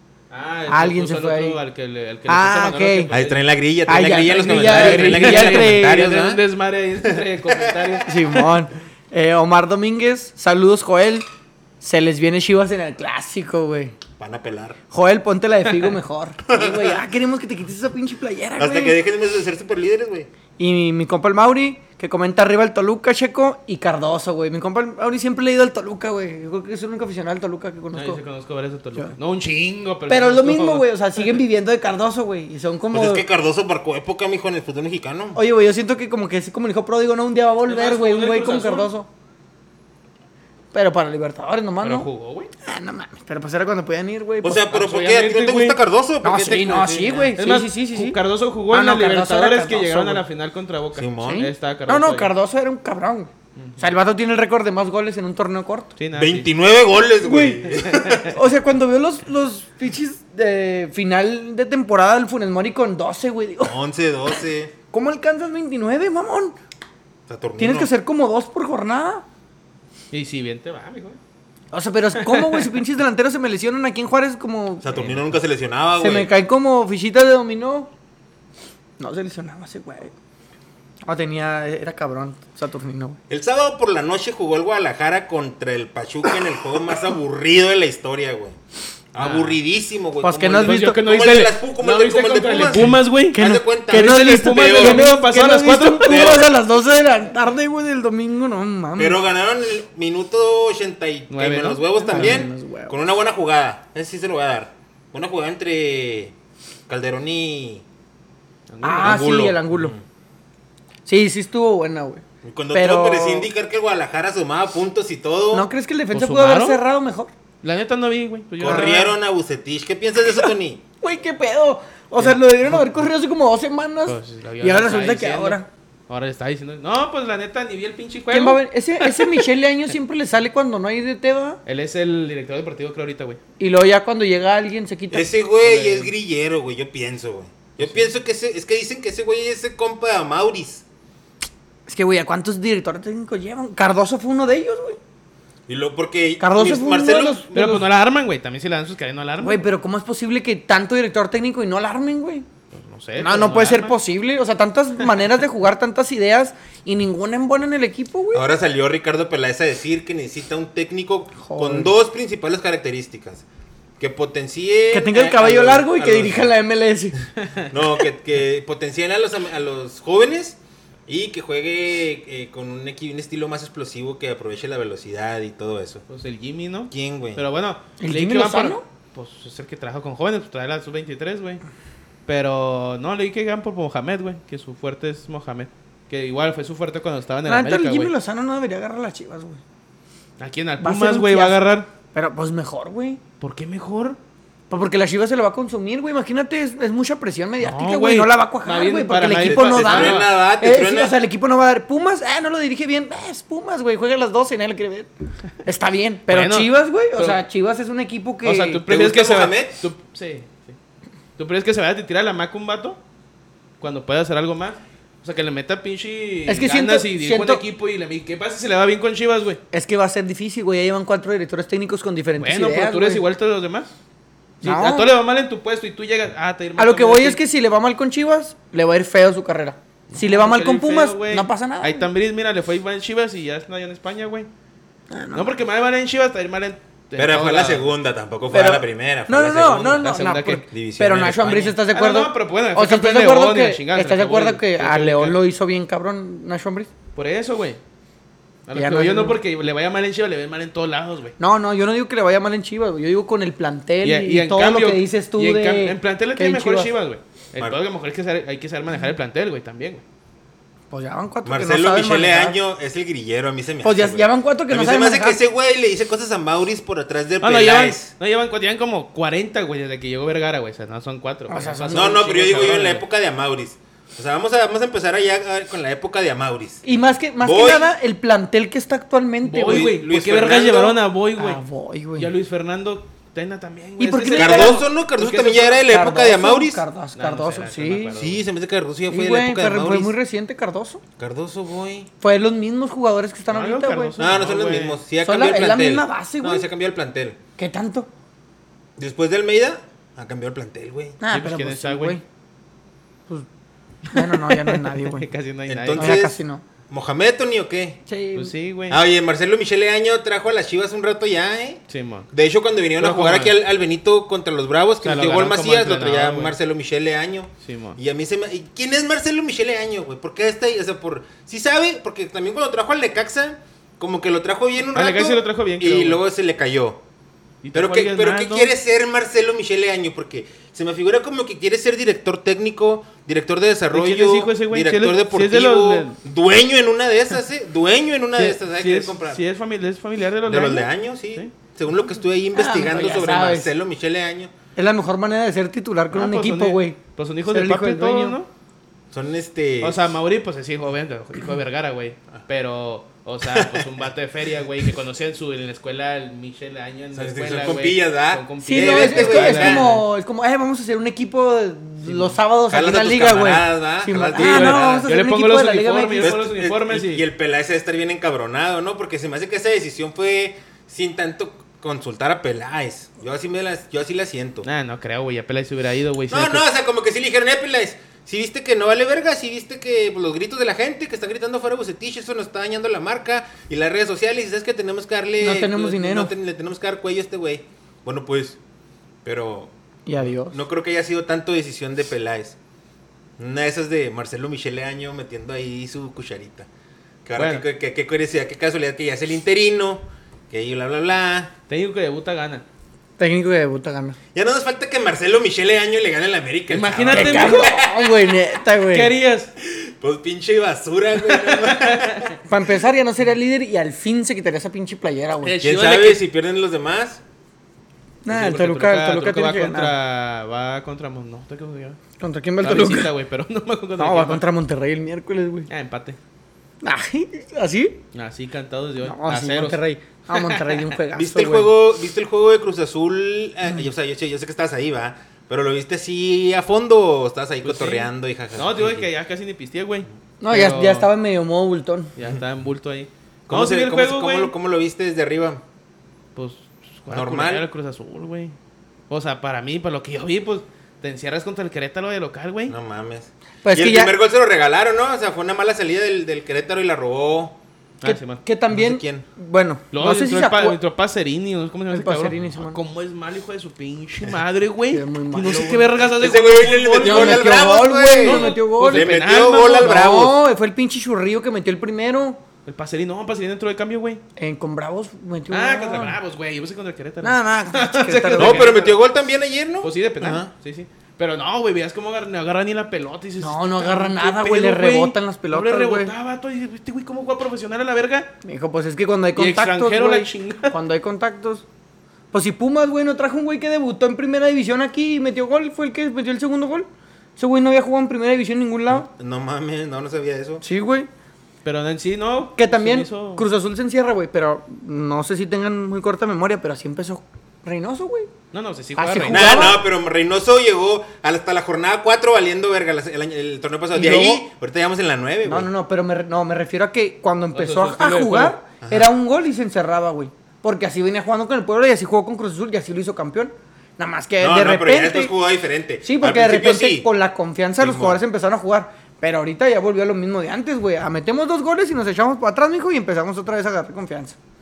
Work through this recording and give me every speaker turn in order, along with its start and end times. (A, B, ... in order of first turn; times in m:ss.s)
0:00.3-0:03.5 A
0:00.7-0:01.6 B
0:02.3-0:03.1 B
0:03.1-0:06.4 C
0:03.9-0:06.1 B
0:04.3-0:08.3 A
0:07.0-0:07.9 C
0:08.0-0:11.2 B
0:11.8-0:14.0 B
0:14.2-0:14.8 C
0:14.9-0:19.0 B
0:16.5-0:17.0 C
0:18.6-0:20.3 C
0:20.6-0:28.2 B
0:28.0-0:31.4 A
0:30.1-0:33.3 B
0:32.9-0:35.4 C
0:35.4-0:39.1 B
0:37.7-0:38.9 A
0:40.7-0:42.1 B
0:41.8-0:42.5 A
0:42.6-0:44.7 B
0:44.4-0:47.3 C
0:44.7-0:45.8 A
0:46.2-0:48.2 B
0:47.4-0:52.3 A
0:48.7-0:50.2 B
0:51.0-0:51.5 C
0:51.2-0:55.9 B
0:56.0-0:56.5 A
0:56.1-0:58.4 C
0:57.2-1:03.8 B
0:57.9-0:58.2 A
1:03.6-1:04.7 C
1:04.9-1:06.6 B
1:07.3-1:07.9 C
1:07.6-1:09.3 B
1:10.1-1:11.2 A
1:11.7-1:15.2 B
1:12.2-1:12.8 A
1:14.8-1:16.3 C
1:16.0-1:17.9 B
1:19.0-1:20.1 B
1:21.1-1:23.2 B
1:23.3-1:28.6 C
1:29.1-1:35.1 C
1:29.2-1:29.6 A
1:30.2-1:31.0 B
1:30.5-1:36.4 A
1:33.3-1:39.2 B
1:36.0-1:36.5 C
1:39.0-1:46.4 C
1:41.3-1:42.4 A
1:42.1-1:43.0 B
1:46.9-1:47.8 C
1:48.7-1:49.4 A
1:48.8-1:50.0 B
1:49.0-1:50.0 C
1:51.1-1:53.5 B
1:52.4-1:55.7 C
1:55.5-1:57.3 B
1:56.1-1:56.8 A
1:57.6-1:59.1 A
1:58.6-2:00.8 C
1:58.6-1:59.1 B
2:01.0-2:05.7 B
2:04.1-2:09.5 A
2:08.3-2:11.6 B
2:11.6-2:13.4 A
2:13.6-2:15.3 B
2:15.1-2:20.8 C
2:15.6-2:16.1 A
2:17.8-2:18.1 A
2:21.9-2:25.0 B
2:25.7-2:27.8 C
2:26.4-2:27.8 B
2:27.5-2:29.6 A
2:29.4-2:32.5 B
2:32.7-2:34.0 A
2:33.2-2:38.5 B
2:38.3-2:43.5 C
2:41.4-2:41.9 B
2:44.0-2:46.5 C
2:44.9-2:47.2 B
2:47.7-2:56.0 C
2:56.1-3:01.6 A
2:56.9-2:57.4 C
2:58.0-2:58.8 B
3:02.3-3:08.1 A
3:07.5-3:09.6 B
3:10.4-3:11.9 A
3:10.8-3:11.6 B
3:12.1-3:13.2 B
3:13.4-3:14.2 A
3:14.7-3:25.1 B
3:17.6-3:20.3 A
3:19.4-3:21.2 C
3:25.6-3:28.8 B
3:26.3-3:27.4 A
3:28.4-3:30.8 A
3:28.9-3:29.8 C
3:31.4-3:33.0 A
3:33.8-3:39.6 A
3:36.5-3:37.6 B
3:39.7-3:43.2 B
3:42.4-3:43.9 A
3:44.6-3:47.4 A
3:44.6-3:45.1 B
3:46.8-3:52.1 B
3:50.1-3:54.5 A
3:55.1-3:55.5 B
3:55.3-3:57.9 A
3:57.2-4:00.1 C
3:58.5-4:06.9 B
4:00.0-4:00.7 A
4:00.7-4:01.6 C
4:01.2-4:05.4 A
4:07.2-4:07.8 A
4:08.7-4:11.4 A
4:08.7-4:09.4 B
4:11.4-4:16.9 B
4:14.0-4:20.0 A
4:20.9-4:22.6 B
4:21.4-4:28.1 C
4:23.8-4:25.4 B
4:27.4-4:33.0 A
4:31.5-4:32.3 B
4:31.9-4:36.8 C
4:36.8-4:39.9 B
4:37.4-4:37.9 C
4:39.4-4:41.6 A
4:39.7-4:41.0 C
4:41.4-4:42.3 B
4:42.2-4:45.8 A
4:44.0-4:44.9 B
4:44.4-4:46.8 C
4:45.8-4:48.2 B
4:47.2-4:48.4 A
4:48.2-4:50.1 C
4:49.1-4:51.0 B
4:51.2-4:52.1 C
4:52.2-4:54.2 B
4:53.5-4:55.0 A
4:54.2-4:57.4 C
4:55.2-4:56.7 B
4:57.6-4:58.1 B
4:59.0-5:01.2 C
5:01.2-5:02.2 B
5:01.3-5:02.2 A
5:04.1-5:06.2 A
5:04.1-5:05.3 B
5:05.7-5:06.4 C
5:06.0-5:06.6 B
5:06.9-5:08.0 C
5:08.1-5:08.5 B
5:08.4-5:09.0 A
5:08.9-5:11.8 C
5:11.9-5:12.3 A
5:12.3-5:27.0 C
5:13.0-5:13.6 A
5:15.0-5:16.6 A
5:17.6-5:18.0 A
5:24.9-5:26.2 A
5:27.6-5:28.7 A
5:27.7-5:39.4 C
5:33.9-5:36.2 A
5:38.4-5:41.5 A
5:40.4-5:44.5 C
5:42.5-5:43.7 B
5:44.8-5:48.4 B
5:46.1-5:48.5 A
5:49.1-5:50.1 C
5:49.8-6:00.0 A
5:53.5-5:53.9 C
5:57.1-5:59.9 C
5:58.6-6:06.3 B
6:02.7-6:05.1 C
6:04.3-6:07.2 A
6:06.2-6:14.7 C
6:14.6-6:16.6 A
6:16.3-6:28.6 C
6:25.4-6:26.3 B
6:29.2-6:32.6 C
6:30.1-6:30.6 B
6:33.4-6:36.7 C
6:37.2-6:41.5 C
6:37.4-6:37.6 A
6:41.7-6:42.6 A
6:43.2-6:44.2 B
6:44.3-6:48.4 C
6:46.7-6:47.8 A
6:47.1-6:49.1 B
6:48.9-6:49.5 A
6:49.6-6:52.4 C
6:51.2-6:52.3 A
6:52.5-6:55.6 B
6:55.4-6:56.2 A
6:55.6-6:57.2 C
6:58.2-6:59.9 B
6:58.3-7:02.0 A
7:02.2-7:03.1 B
7:02.6-7:04.4 A
7:04.0-7:05.7 B
7:05.7-7:06.2 A
7:06.8-7:08.0 B
7:08.1-7:10.8 A
7:09.0-7:11.7 B
7:11.2-7:19.1 C
7:17.6-7:21.1 A
7:20.4-7:22.1 B
7:22.2-7:24.5 A
7:23.5-7:25.6 C
7:26.4-7:28.6 A
7:27.1-7:27.7 C
7:29.1-7:32.8 A
7:32.7-7:37.6 C
7:33.6-7:34.1 B
7:38.0-7:38.4 A
7:38.0-7:40.8 B
7:38.7-7:39.3 C
7:39.9-7:50.0 A
7:41.9-7:42.8 B
7:44.9-7:45.9 B
7:46.1-7:50.4 C
7:47.0-7:49.1 B
7:49.8-7:52.4 B
7:52.7-7:54.2 A
7:54.4-7:56.2 B
7:55.5-7:59.0 A
7:57.2-7:58.8 B
7:58.4-8:00.5 C
7:59.8-8:08.3 A
8:03.4-8:06.1 B
8:08.4-8:11.6 B
8:09.4-8:10.8 A
8:12.3-8:19.1 B
8:18.9-8:20.6 C
8:20.6-8:21.1 B
8:21.6-8:23.4 A
8:22.6-8:28.3 B
8:28.5-8:29.8 A
8:29.0-8:29.8 B
8:29.3-8:35.7 C
8:33.9-8:34.4 B
8:35.4-8:45.3 B
8:37.5-8:38.6 A
8:38.8-8:39.1 C
8:44.4-8:47.1 C
8:46.0-8:54.4 B
8:47.8-8:48.2 C